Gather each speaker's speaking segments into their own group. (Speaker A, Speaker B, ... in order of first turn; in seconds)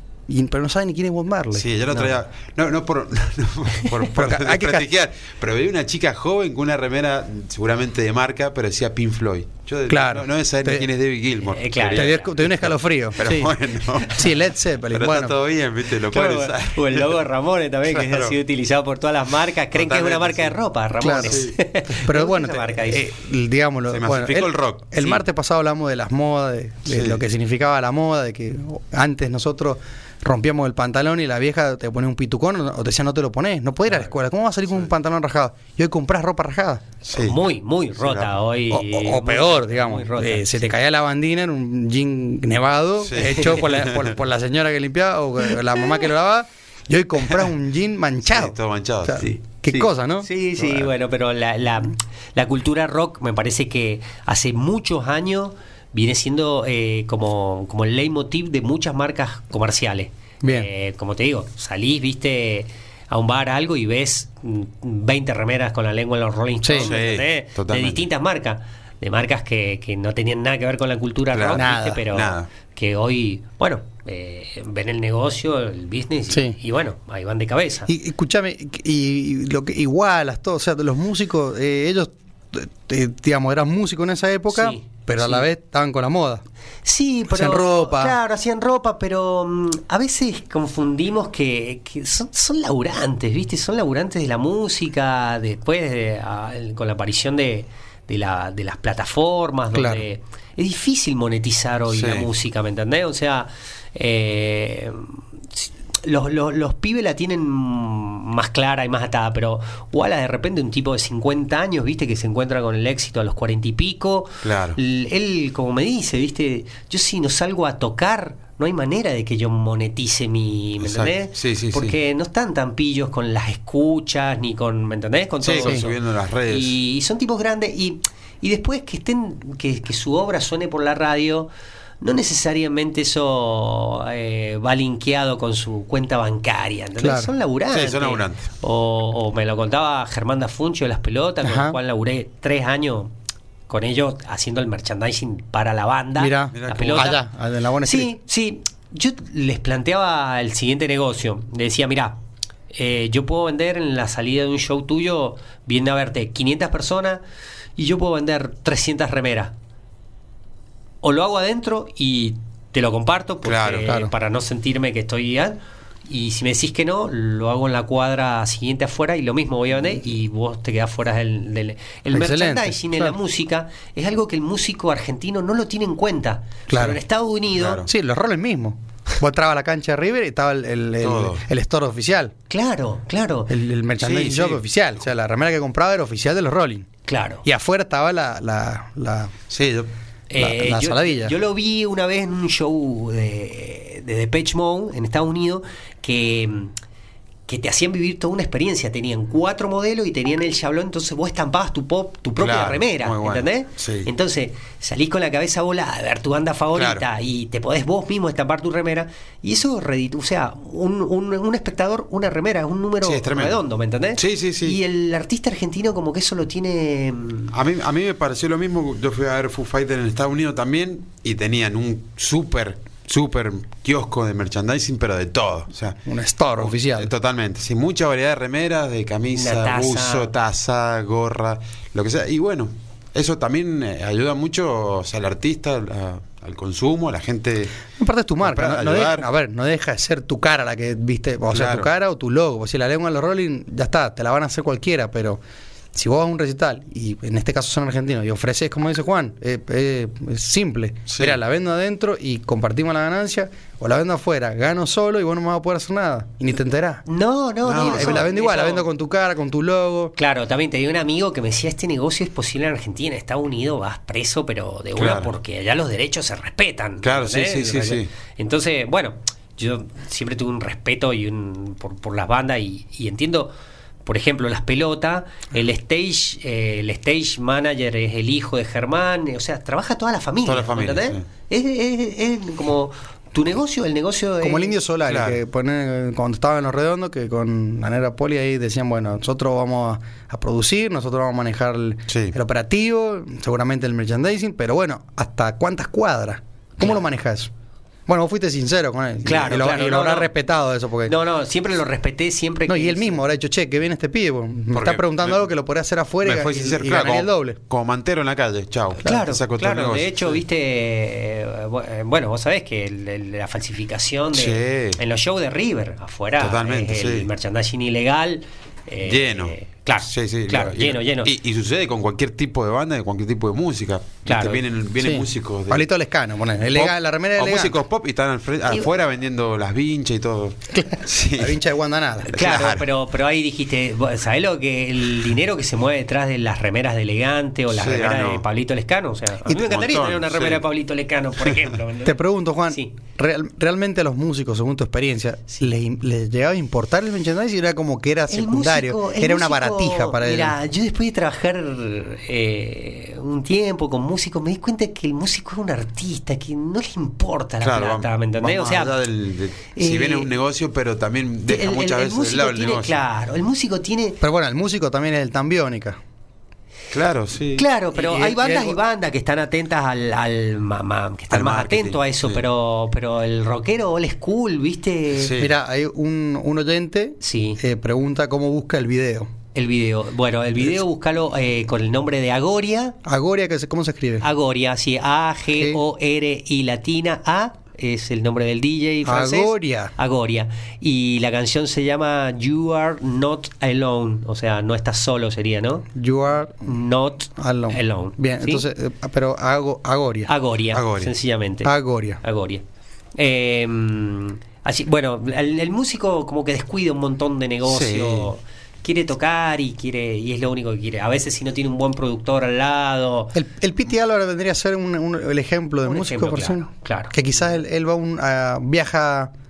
Speaker A: 0.3-1.6, 4.1-4.9, 9.9-10.9, 11.9-15.4, 21.0-21.4, 22.0-36.9, 38.7-50.3, 60.4-60.7, 66.6-66.9, 71.5-72.0, 76.3-76.6, 77.9-86.4, 87.3-88.2, 99.7-100.0, 137.0-137.3, 141.4-141.8, 146.2-148.1, 163.9-164.1, 172.1-173.2, 176.7-177.0, 177.8-182.3, 183.5-186.9, 187.4-189.3, 190.4-191.3, 226.1-227.1, 238.0-245.4, 245.9-257.0, 257.7-260.1, 284.4-297.5, 298.1-301.1, 302.7-307.6, 325.0-327.8, 330.7-332.4, 342.0-350.6, 364.2-366.0, 367.9-368.8, 375.4-379.3, 383.0-384.2, 385.5-385.8, 389.0-389.9, 395.9-396.7, 397.4-400.3, 401.6-402.2, 413.3-419.3
Speaker B: 1.5-14.3, 14.9-17.1, 17.9-18.4, 19.7-20.6, 21.1-21.6, 23.9-24.9, 26.9-27.2, 37.0-37.4, 38.0-38.3, 43.0-44.1, 48.3-49.9, 66.8-68.0, 71.3-72.5, 101.9-102.3, 114.4-114.8, 120.8-121.9, 125.4-126.8, 137.7-138.5, 146.5-147.2, 163.4-163.9, 177.5-177.9, 181.0-181.4, 184.0-184.6, 189.5-189.9, 202.4-204.1, 206.8-207.0, 213.0-213.6, 214.2-214.8, 217.5-226.0, 226.6-237.8, 238.4-239.2, 241.5-241.9, 251.1-251.4, 257.6-258.2, 264.9-265.3, 267.0-268.1, 280.4-281.2, 285.1-285.4, 292.1-292.4, 304.7-305.5, 306.2-310.4, 314.3-315.0, 316.4-317.3, 319.0-325.9, 326.7-331.6, 332.3-332.9, 337.7-338.4, 339.5-340.6, 357.6-363.0, 366.9-367.7, 371.3-372.4, 375.1-375.5, 400.7-401.1, 407.6-408.3
Speaker C: 11.5-12.3, 16.1-23.1, 37.1-40.8, 50.2-77.9, 84.5-85.5, 86.8-131.5, 132.0-143.1, 143.7-147.2, 147.8-152.2, 152.7-157.2, 157.8-159.5, 161.0-177.8, 182.5-183.5, 187.1-187.4, 190.3-196.7, 197.5-217.5, 229.3-230.3, 257.1-258.9, 260.1-273.5, 274.0-284.8, 299.2-300.3, 301.0-303.2, 309.0-321.3, 324.2-324.6, 332.3-342.2, 348.3-358.9, 359.7-360.3, 361.5-364.2, 367.5-375.3, 377.2-377.6, 379.5-383.0, 384.2-395.9, 396.6-398.6, 400.3-402.6, 403.2-413.3, 415.8-417.1